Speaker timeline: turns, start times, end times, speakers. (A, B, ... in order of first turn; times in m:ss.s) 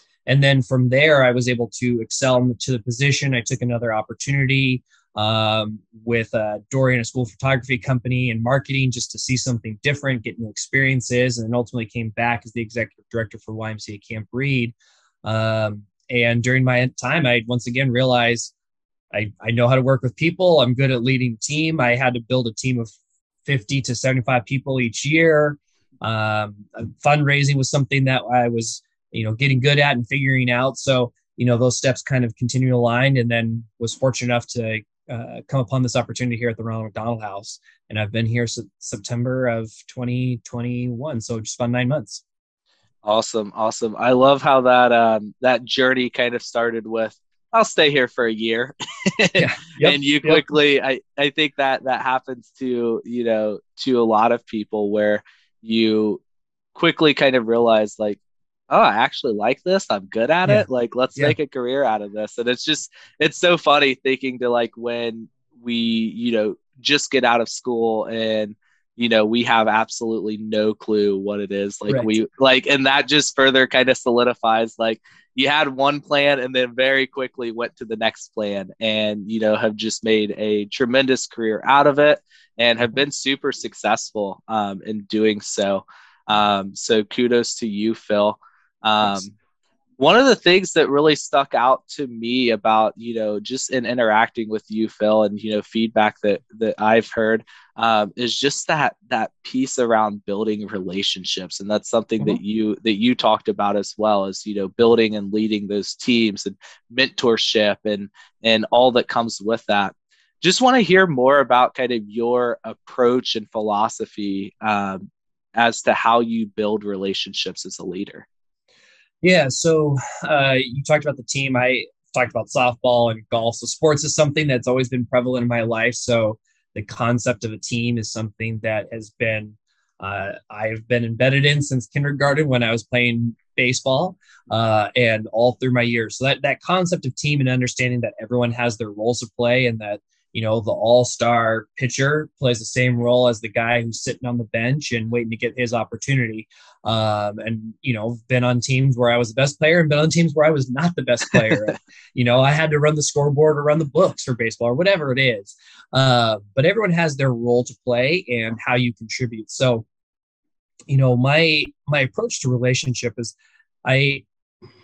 0:00.2-0:18.5 A
0:19.1-0:22.9 A
0:23.4-0:42.2 A
0:43.0-0:56.2 B
0:49.4-0:50.4 A
0:56.7-1:29.3 B
1:11.9-1:12.1 A
1:30.0-1:58.2 B
1:59.2-2:39.8 A
2:40.9-2:43.3 A
2:43.8-2:44.2 A